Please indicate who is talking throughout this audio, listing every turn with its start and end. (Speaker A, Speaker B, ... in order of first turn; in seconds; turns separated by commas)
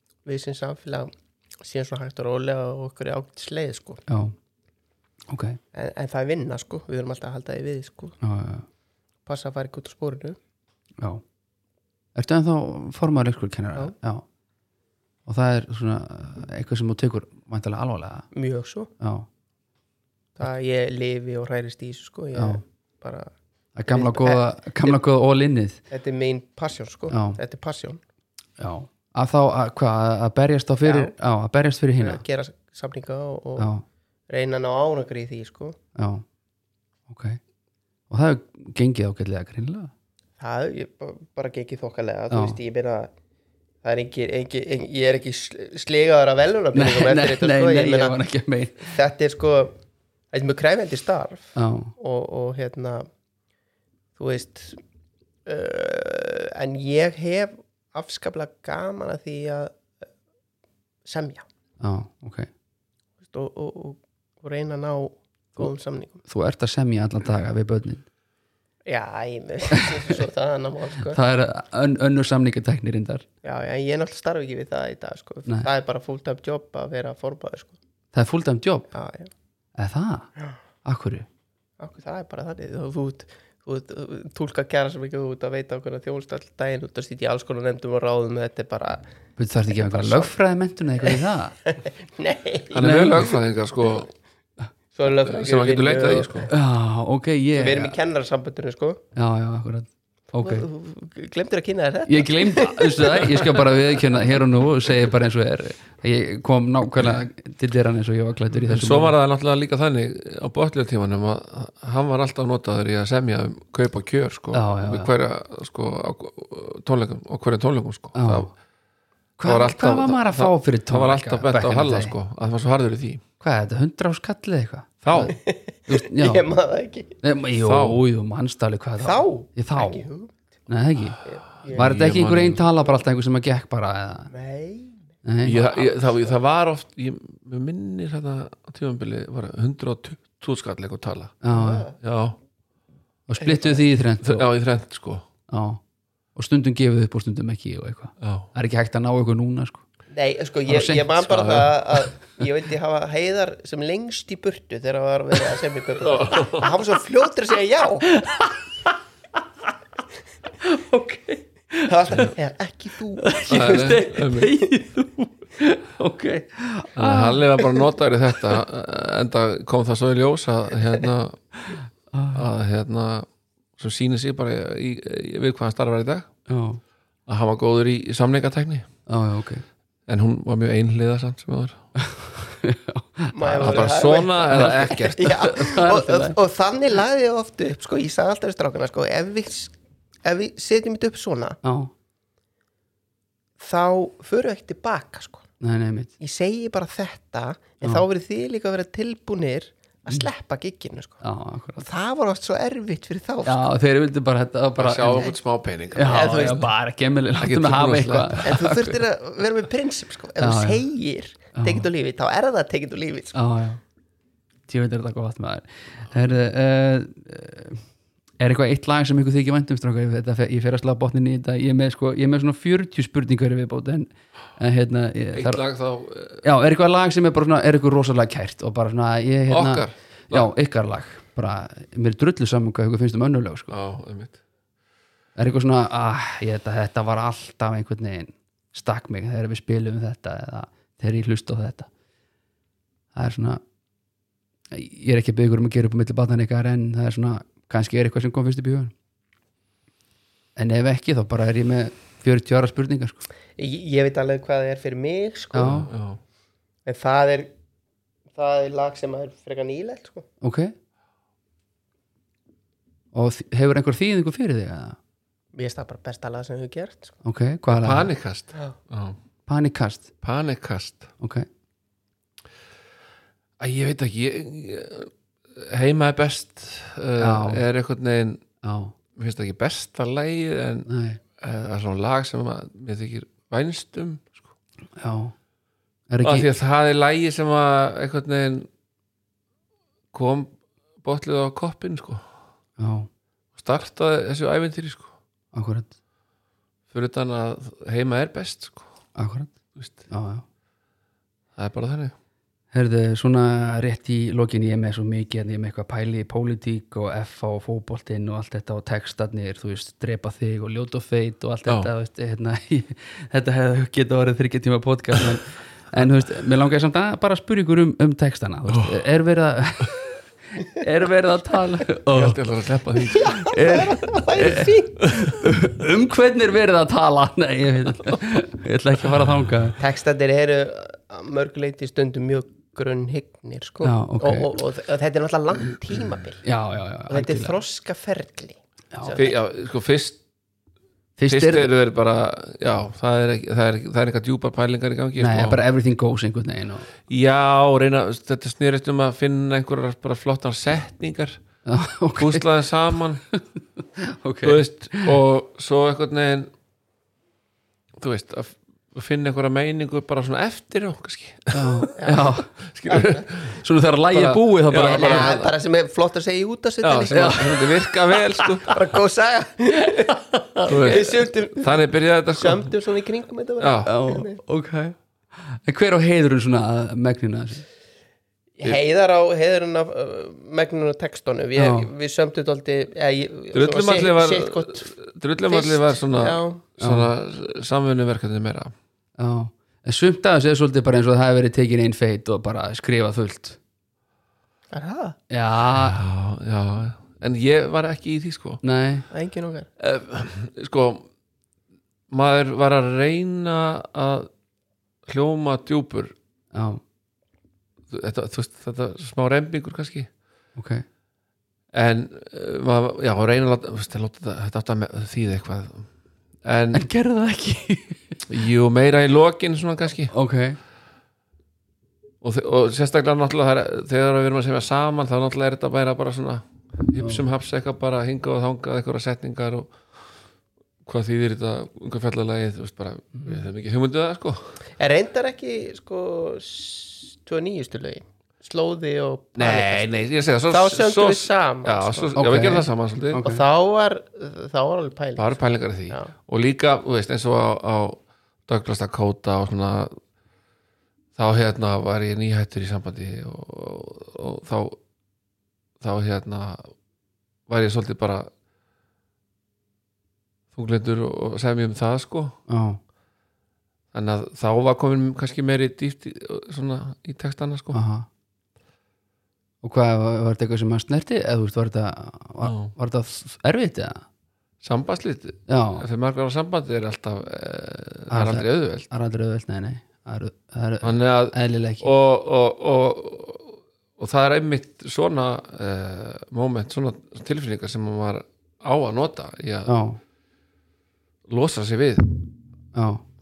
Speaker A: 0.2-4.0, Speaker B: 4.1-4.3, Speaker B: 5.3-5.6, Speaker A: 5.7-8.1, Speaker B: 8.2-8.6, Speaker A: 9.2-10.4, Speaker B: 12.1-14.2, Speaker B: 15.2-18.3, Speaker A: 18.3-18.9, Speaker B: 19.0-19.3, Speaker A: 20.4-23.3, Speaker B: 22.3-22.6, Speaker B: 23.8-25.8, Speaker A: 23.9-24.9, Speaker A: 25.9-28.0, Speaker B: 27.1-27.4, Speaker B: 28.6-32.2, Speaker A: 30.8-31.1, Speaker A: 32.0-33.7, Speaker B: 33.6-33.8, Speaker A: 34.3-35.8, Speaker B: 36.0-36.2, Speaker B: 37.1-37.4, Speaker B: 38.1-39.9, Speaker A: 40.4-43.1, Speaker B: 42.3-42.6, Speaker A: 43.8-48.2, Speaker B: 46.7-48.9, Speaker A: 48.8-49.7, Speaker A: 50.3-53.1, Speaker B: 51.5-51.9, Speaker A: 54.1-54.8, Speaker A: 55.5-59.8, Speaker A: 61.0-61.5, Speaker B: 61.8-62.5, Speaker A: 63.3-66.2, Speaker B: 66.2-68.0, Speaker A: 68.8-71.2, Speaker B: 69.7-70.1, Speaker B: 71.0-73.2, Speaker A: 73.4-77.8, Speaker B: 78.1-78.9, Speaker A: 78.9-79.3, Speaker B: 79.8-80.3, Speaker B: 80.8-81.2, Speaker A: 81.8-89.0, Speaker B: 89.4-91.5, Speaker A: 89.7-90.3, Speaker A: 91.0-92.8, Speaker C: 92.7-94.1, Speaker B: 92.8-93.3, Speaker A: 94.9-96.5, Speaker C: 95.1-96.5, Speaker B: 96.5-97.9, Speaker A: 97.5-99.0, Speaker B: 99.1-100.7, Speaker A: 100.4-103.4, Speaker B: 102.1-109.2, Speaker C: 108.7-118.5, Speaker B: 114.5-115.1, Speaker B: 118.1-118.5, Speaker B: 119.4-122.2, Speaker C: 119.4-123.2, Speaker B: 123.4-126.5, Speaker C: 125.0-125.3, Speaker A: 125.2-127.2, Speaker B: 127.2-130.1, Speaker C: 127.6-128.0, Speaker A: 129.0-130.4, Speaker B: 130.7-131.2, Speaker A: 131.2-131.9, Speaker C: 131.6-132.6, Speaker B: 131.7-134.3, Speaker A: 134.3-135.0, Speaker B: 135.2-135.6, Speaker C: 135.4-141.4, Speaker A: 135.6-136.3, Speaker B: 141.4-141.9, Speaker A: 141.5-141.9, Speaker C: 142.0-142.4, Speaker B: 143.3-144.5, Speaker A: 143.4-143.8, Speaker C: 144.2-145.2, Speaker B: 145.5-145.8, Speaker B: 146.3-149.8, Speaker C: 148.2-148.5, Speaker A: 150.1-158.2, Speaker B: 150.7-151.9, Speaker C: 156.1-156.7, Speaker B: 158.1-158.6, Speaker B: 160.6-162.3, Speaker A: 161.9-164.0, Speaker B: 163.2-167.7, Speaker C: 163.5-164.5, Speaker C: 166.9-171.4, Speaker B: 171.7-172.4, Speaker C: 172.3-176.3, Speaker B: 176.5-176.8, Speaker C: 177.2-178.9, Speaker B: 179.1-179.6, Speaker C: 180.1-181.8, Speaker B: 182.0-183.9, Speaker A: 183.3-189.7, Speaker C: 183.6-185.2, Speaker B: 184.5-186.3, Speaker A: 190.2-191.6, Speaker B: 191.6-191.9, Speaker A: 193.6-195.4, Speaker B: 195.6-196.1, Speaker A: 196.2-201.2, Speaker B: 201.2-201.8, Speaker A: 201.8-203.7, Speaker B: 203.4-205.3, Speaker C: 204.8-206.7, Speaker B: 205.9-208.9, Speaker A: 206.0-206.7, Speaker C: 207.4-208.4, Speaker A: 208.4-213.3, Speaker B: 210.4-210.8, Speaker B: 211.6-211.8, Speaker B: 213.3-213.8, Speaker B: 214.7-217.8, Speaker B: 218.4-225.6, Speaker C: 225.3-226.4, Speaker B: 226.4-233.8, Speaker C: 229.5-230.5, Speaker C: 233.7-234.4, Speaker B: 235.4-241.9, Speaker B: 243.1-243.6, Speaker B: 244.7-248.9, Speaker B: 250.6-253.2, Speaker A: 253.6-255.8, Speaker B: 255.5-255.9, Speaker C: 255.6-256.2, Speaker A: 256.9-257.5, Speaker A: 258.3-260.3, Speaker B: 260.4-260.7, Speaker B: 263.1-265.0, Speaker A: 265.5-267.2, Speaker B: 267.2-268.1, Speaker C: 267.7-269.2, Speaker B: 269.5-270.1, Speaker C: 270.2-271.1, Speaker B: 271.2-271.5, Speaker C: 273.6-278.4, Speaker B: 277.2-277.6, Speaker B: 278.6-278.9, Speaker C: 279.1-284.4, Speaker B: 280.9-281.2, Speaker B: 284.9-285.3, Speaker B: 286.1-286.5, Speaker C: 286.2-288.7, Speaker C: 290.1-292.2, Speaker B: 292.8-293.1, Speaker C: 293.6-295.1, Speaker B: 295.5-295.9, Speaker C: 296.9-298.9, Speaker B: 299.1-299.5, Speaker C: 299.7-300.1, Speaker B: 300.1-300.4, Speaker C: 301.6-302.1, Speaker B: 302.7-322.4, Speaker C: 318.7-319.0, Speaker C: 322.1-323.3, Speaker B: 323.1-329.8, Speaker A: 323.1-325.2, Speaker A: 329.8-336.4, Speaker B: 333.8-334.5, Speaker B: 336.4-337.6, Speaker A: 337.1-339.4, Speaker B: 338.9-339.2, Speaker C: 339.1-340.2, Speaker B: 341.2-341.7, Speaker C: 341.3-345.6, Speaker B: 345.2-346.9, Speaker C: 347.1-351.4, Speaker B: 351.6-352.5, Speaker C: 352.2-353.2, Speaker B: 354.0-355.1, Speaker C: 354.4-356.5, Speaker C: 358.0-361.9, Speaker B: 361.5-362.5, Speaker A: 362.0-362.3, Speaker C: 362.6-363.6, Speaker A: 362.9-363.2, Speaker B: 363.6-365.4, Speaker C: 364.1-365.5, Speaker A: 364.7-367.4, Speaker C: 366.8-368.7, Speaker B: 367.1-368.1, Speaker A: 368.6-374.4, Speaker B: 369.9-370.6, Speaker C: 370.7-372.7, Speaker C: 373.6-373.9, Speaker B: 373.9-374.9, Speaker B: 375.5-377.6, Speaker A: 378.6-384.9, Speaker B: 381.6-381.9, Speaker C: 383.5-388.7, Speaker A: 385.4-386.6, Speaker B: 386.8-387.1, Speaker B: 389.2-393.6, Speaker A: 394.7-395.2, Speaker B: 395.3-396.0, Speaker C: 395.6-398.6, Speaker B: 398.6-399.1, Speaker A: 399.1-399.7, Speaker C: 399.8-401.1, Speaker C: 402.1-404.3, Speaker C: 405.1-406.1, Speaker B: 406.5-406.8, Speaker C: 407.9-410.1, Speaker B: 410.6-410.8, Speaker C: 411.7-415.9, Speaker C: 416.4-416.8, Speaker B: 416.7-418.2, Speaker C: 418.3-420.1, Speaker B: 420.1-420.6, Speaker C: 422.2-429.8, Speaker C: 430.8-434.6, Speaker A: 434.8-442.2, Speaker C: 439.4-443.2, Speaker B: 442.1-443.4, Speaker A: 443.2-446.1, Speaker C: 445.1-450.0, Speaker C: 451.1-454.8, Speaker C: 455.8-456.7, Speaker C: 457.5-458.3, Speaker C: 460.5-462.4, Speaker B: 462.5-462.8, Speaker C: 463.9-467.8, Speaker B: 467.7-468.1, Speaker B: 469.6-474.0, Speaker C: 472.4-472.7, Speaker C: 474.6-478.9, Speaker B: 475.5-475.8, Speaker B: 478.1-481.9, Speaker C: 480.8-489.8, Speaker B: 489.6-490.0, Speaker C: 491.3-492.1, Speaker B: 492.7-493.0